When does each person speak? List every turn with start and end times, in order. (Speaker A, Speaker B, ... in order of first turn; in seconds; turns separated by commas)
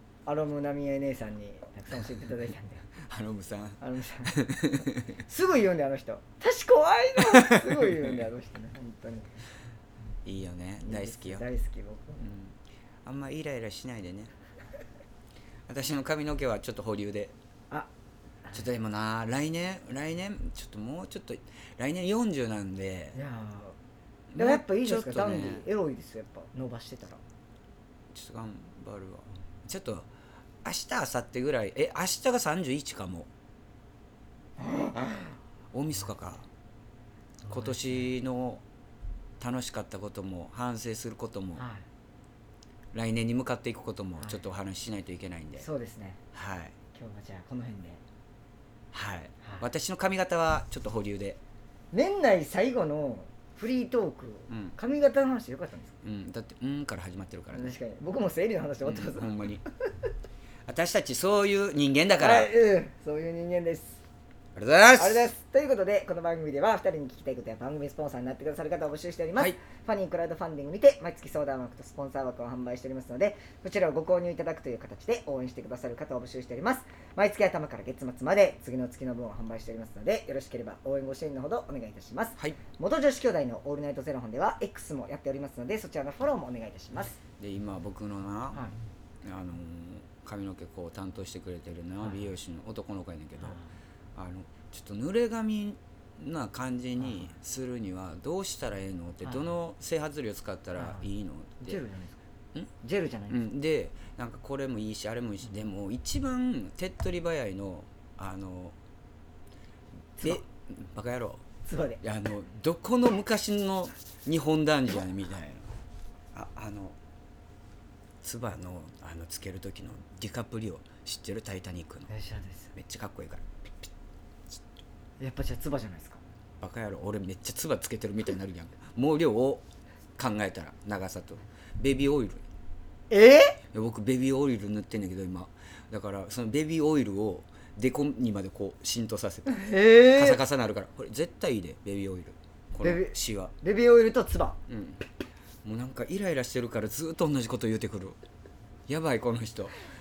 Speaker A: 0.3-2.9, Speaker B: 3.0-5.1, Speaker A: 3.8-4.3, Speaker A: 5.2-9.3, Speaker B: 7.3-8.0, Speaker B: 10.2-11.4, Speaker A: 10.8-12.2, Speaker B: 12.2-14.3, Speaker B: 15.7-17.4, Speaker B: 18.5-23.2, Speaker A: 23.1-23.8, Speaker B: 24.3-25.7, Speaker A: 24.4-27.2, Speaker B: 28.1-30.1, Speaker B: 30.6-33.3, Speaker A: 34.6-35.4, Speaker B: 35.7-36.5, Speaker A: 37.5-37.8, Speaker B: 37.5-38.6, Speaker B: 39.4-41.6, Speaker A: 41.6-41.9, Speaker B: 42.9-45.7, Speaker A: 45.6-46.2, Speaker B: 46.3-46.8, Speaker A: 46.9-48.0, Speaker B: 48.9-51.4, Speaker A: 51.9-56.0, Speaker B: 54.5-54.8, Speaker B: 56.0-57.8, Speaker A: 57.5-59.6, Speaker B: 58.8-59.6, Speaker B: 60.7-62.5, Speaker A: 62.2-64.0, Speaker B: 64.6-65.3, Speaker A: 65.0-87.2, Speaker B: 87.4-88.7, Speaker B: 89.2-93.6, Speaker A: 93.4-93.7, Speaker B: 94.2-101.8, Speaker A: 97.0-97.3, Speaker A: 100.8-101.0, Speaker A: 101.7-102.2, Speaker A: 102.8-103.5, Speaker B: 103.3-108.8, Speaker B: 110.2-111.4, Speaker A: 111.7-112.0, Speaker B: 112.0-115.7, Speaker B: 116.3-117.0, Speaker B: 118.2-122.1, Speaker A: 122.1-122.7, Speaker B: 122.8-123.9, Speaker A: 125.2-126.2, Speaker B: 126.6-129.7, Speaker B: 130.2-132.4, Speaker A: 133.1-133.6, Speaker B: 133.7-143.5, Speaker A: 139.5-140.4, Speaker A: 142.8-144.6, Speaker B: 144.7-145.0, Speaker B: 145.6-148.2, Speaker B: 148.9-149.7